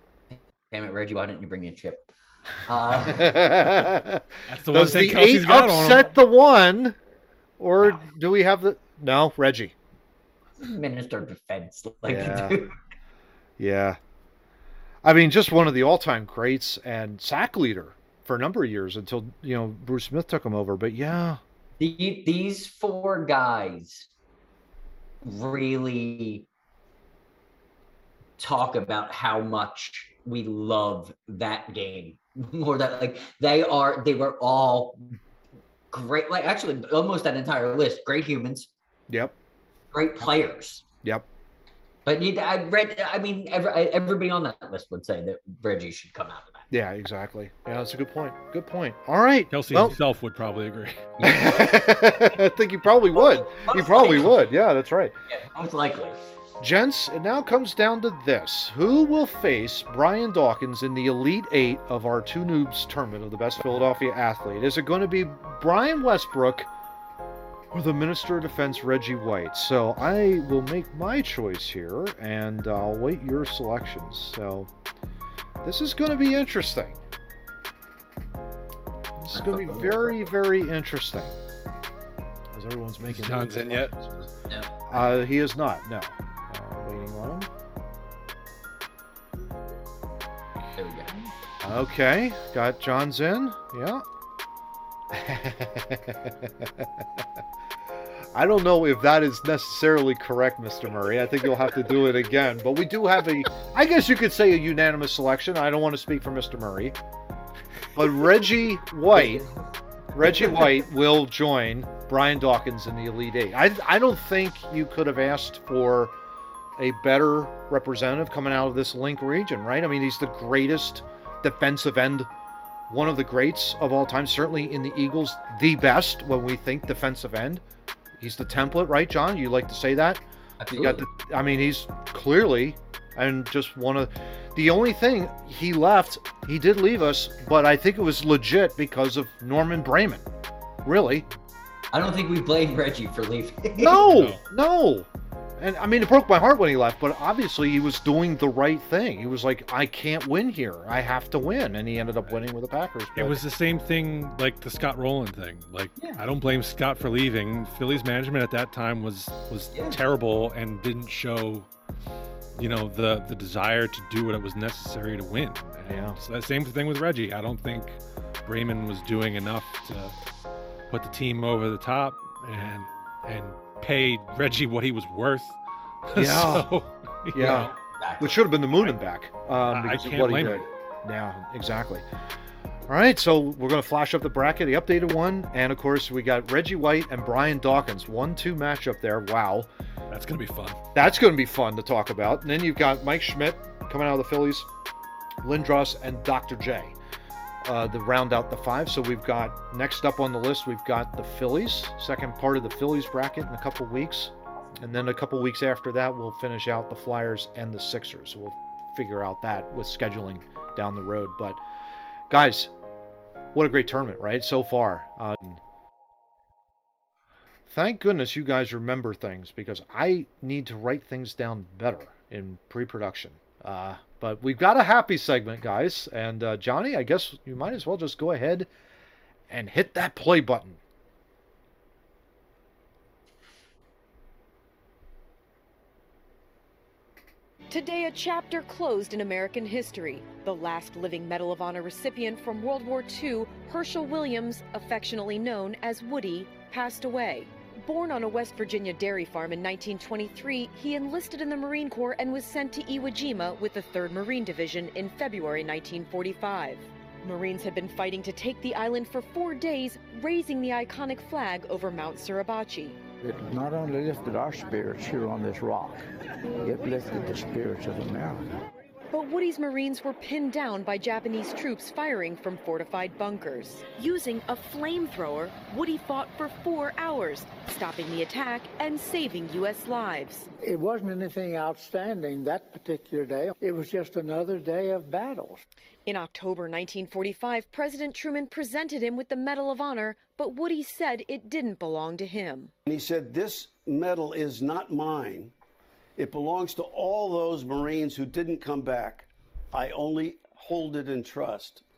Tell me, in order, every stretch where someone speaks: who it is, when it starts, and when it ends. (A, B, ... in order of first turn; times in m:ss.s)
0:00.3-0:02.0 A
0:02.6-0:03.3 A
0:03.1-0:07.0 B
0:04.5-0:06.1 C
0:07.6-0:09.7 B
0:10.6-0:12.8 A
0:12.0-0:12.6 B
0:13.6-0:14.0 B
0:15.0-0:21.4 B
0:21.8-0:24.1 A
0:25.2-0:26.5 A
0:28.4-0:35.1 A
0:35.9-0:38.7 A
0:39.1-0:39.3 B
0:39.9-0:40.8 A
0:42.0-0:46.6 A
0:46.7-0:50.0 B
0:49.5-0:51.1 C
0:51.2-0:52.4 A
0:51.2-0:55.1 B
0:53.1-0:54.5 A
0:55.3-0:56.2 A
0:56.6-1:06.7 B
1:07.7-1:14.7 B
1:15.6-1:17.0 B
1:19.2-1:21.4 B
1:19.3-1:20.2 A
1:22.5-1:24.3 B
1:23.0-1:24.0 C
1:24.5-1:24.8 A
1:24.9-1:27.5 B
1:30.8-1:31.3 A
1:31.6-1:34.0 B
1:35.1-1:37.2 B
1:38.3-1:47.0 B
1:48.0-1:49.4 B
1:49.1-1:50.7 A
1:50.1-1:56.1 B
1:56.8-2:02.3 B
2:02.9-2:07.6 B
2:08.2-2:20.2 B
2:10.6-2:11.0 A
2:20.8-2:21.3 B
2:21.9-2:24.0 A
2:23.8-2:33.4 B
2:24.0-2:24.4 C
2:33.2-2:41.7 C
2:42.6-2:50.1 C
2:45.9-2:46.2 B
2:50.9-2:57.7 C
2:56.1-2:56.7 B
2:57.3-3:02.0 B
2:57.4-2:58.5 A
2:59.7-3:00.6 C
3:02.9-3:09.7 B
3:10.1-3:10.8 C
3:10.9-3:14.7 B
3:15.4-3:17.0 B
3:17.6-3:31.6 B
3:32.3-3:32.7 B
3:33.5-3:35.6 B
3:37.7-3:48.7 B
3:49.5-3:50.8 B
3:57.7-4:23.0 D
4:23.2-4:28.6 E
4:29.1-4:40.5 D
4:40.6-4:45.6 E
4:46.0-4:52.7 D
4:52.8-4:55.5 F
4:56.2-5:01.8 F